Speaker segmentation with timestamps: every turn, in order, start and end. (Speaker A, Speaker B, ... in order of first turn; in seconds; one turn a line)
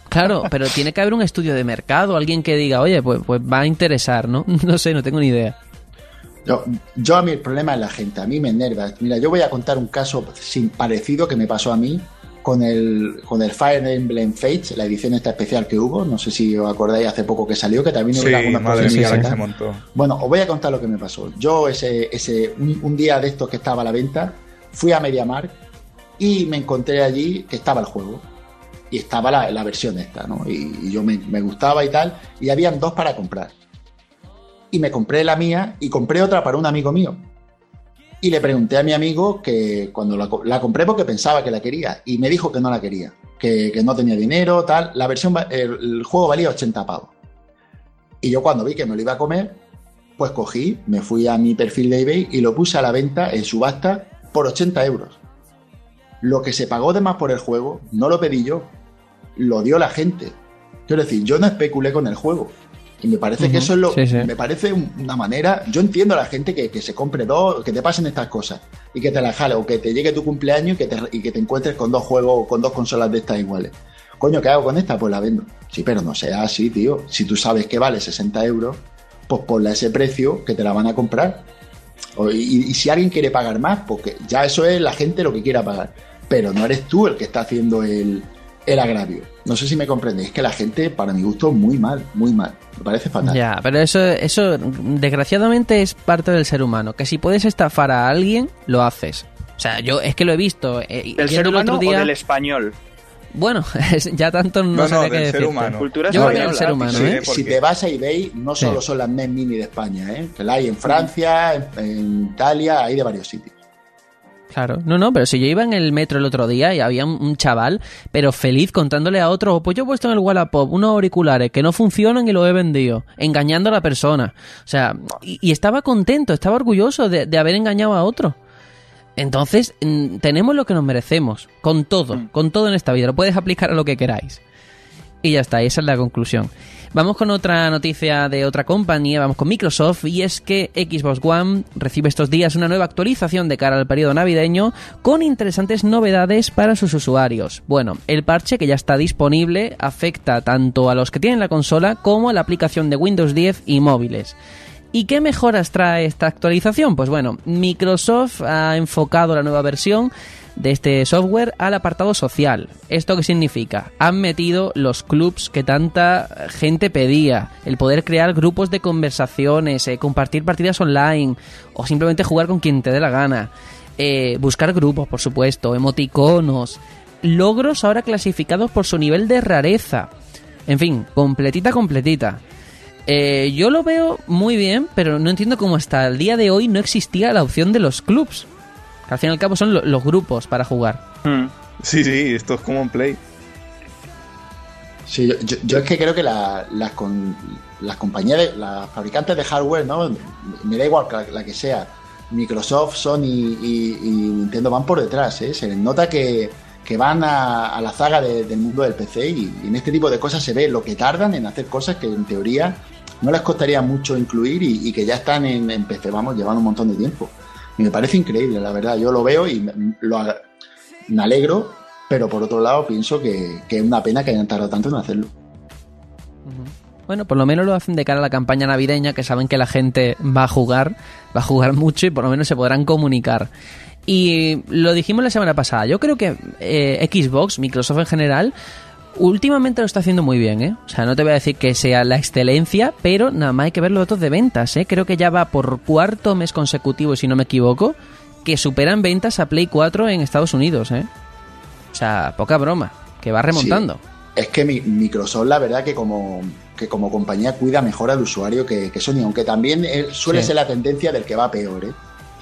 Speaker A: 0.1-5.6
Speaker B: 6.4-19.4
Speaker C: 18.1-19.8
Speaker A: 18.8-19.3
Speaker B: 19.9-25.6
Speaker B: 26.2-28.2
Speaker B: 28.9-33.5
Speaker B: 34.7-37.2
Speaker B: 38.2-47.1
Speaker B: 48.2-49.6
Speaker B: 50.2-55.2
Speaker B: 56.2-58.7
Speaker B: 59.4-81.5
Speaker A: 63.4-64.3
Speaker B: 82.1-93.4
Speaker A: 93.2-102.1
Speaker D: 101.2-102.8
Speaker A: 103.3-107.2
Speaker C: 104.7-107.6
Speaker D: 105.8-106.8
Speaker B: 106.2-113.5
Speaker A: 114.5-128.3
Speaker A: 129.2-134.4
Speaker A: 135.2-154.3
Speaker A: 154.9-180.1
Speaker A: 180.7-182.4
Speaker A: 183.1-188.5
Speaker A: 189.1-191.0
Speaker D: 191.2-191.5
Speaker C: 191.8-193.2
Speaker B: 195.1-220.4
Speaker B: 221.1-225.3
Speaker A: 226.5-233.5
Speaker A: 234.1-238.5
Speaker A: 239.1-251.1
Speaker A: 251.9-254.0
Speaker B: 253.5-262.0